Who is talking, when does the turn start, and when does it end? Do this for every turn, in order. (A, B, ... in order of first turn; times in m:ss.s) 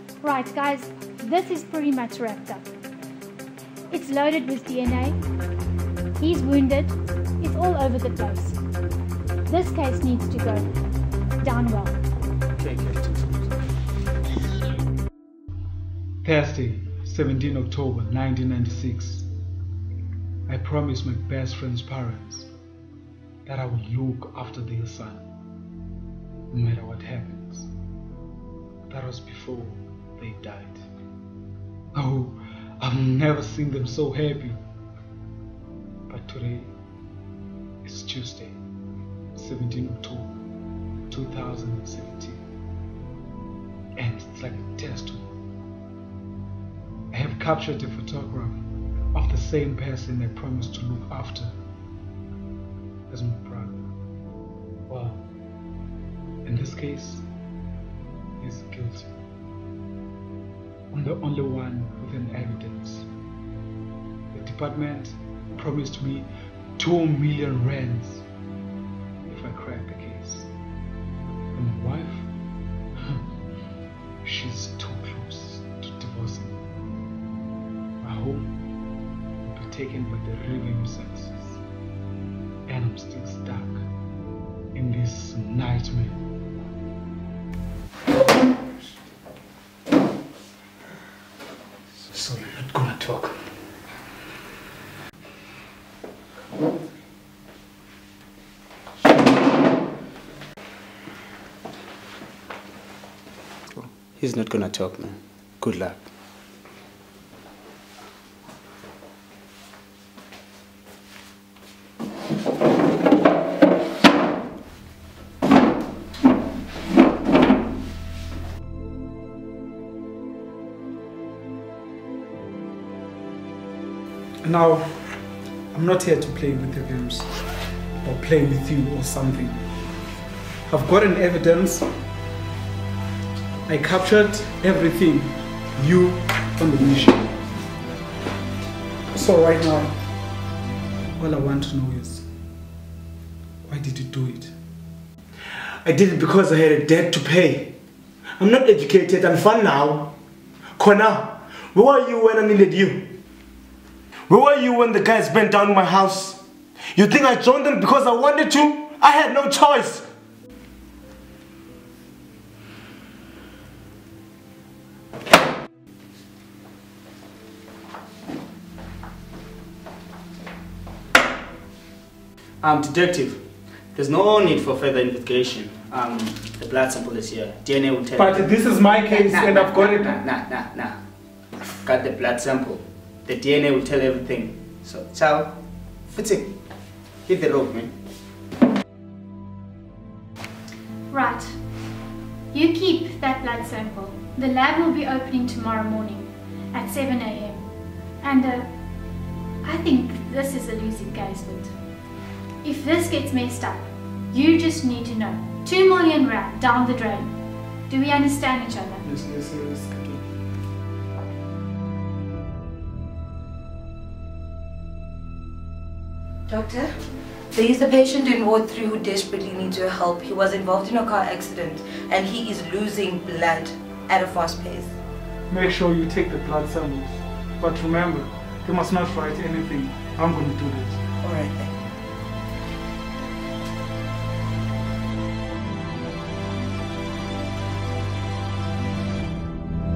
0:00.2-0:02.7 A
0:03.9-0:05.2 A
0:06.2-0:08.6 A
0:09.5-0:10.7 A
0:11.4-0:12.0 A
0:12.6-0:13.5 B
0:16.2-0:19.3 C
0:20.5-0:22.5 C
0:23.4-0:25.3 C
0:26.5-0:27.7 C
0:28.9-0:30.8 C
0:31.9-0:34.6 C
0:36.1-0:36.7 C
0:37.8-0:38.6 C
0:39.3-0:40.3 C
0:41.1-0:42.4 C
0:44.0-0:45.2 C
0:47.1-0:48.6 C
0:49.1-0:51.5 C
0:53.1-0:53.8 C
0:54.9-0:55.2 C
0:56.4-0:57.2 C
0:58.4-0:59.1 C
1:00.9-1:03.1 C
1:04.3-1:08.2 C
1:09.2-1:10.5 C
1:11.5-1:12.3 C
1:14.2-1:16.6 C
1:18.0-1:18.5 C
1:19.4-1:21.6 C
1:22.7-1:23.8 C
1:24.7-1:26.2 C
1:32.1-1:33.4 C
1:43.8-1:46.0 B
2:04.4-2:05.1 C
2:05.7-2:07.3 C
2:08.0-2:09.6 C
2:10.7-2:11.9 C
2:13.7-2:17.3 C
2:19.1-2:19.9 C
2:21.2-2:22.3 C
2:23.6-2:24.5 C
2:25.8-2:27.7 D
2:28.4-2:30.1 D
2:30.8-2:33.1 D
2:34.3-2:36.4 D
2:36.9-2:40.1 D
2:52.6-3:01.0 B
2:58.1-3:00.2 C
3:01.8-3:06.5 B
3:07.2-3:07.9 B
3:11.1-3:11.6 A
3:12.5-3:19.0 A
3:19.6-3:21.8 A
3:22.6-3:29.0 A
3:29.0-3:30.2 C
3:36.5-3:36.9 E
3:37.5-3:44.9 E
3:45.5-3:51.0 C
3:51.2-3:51.7 E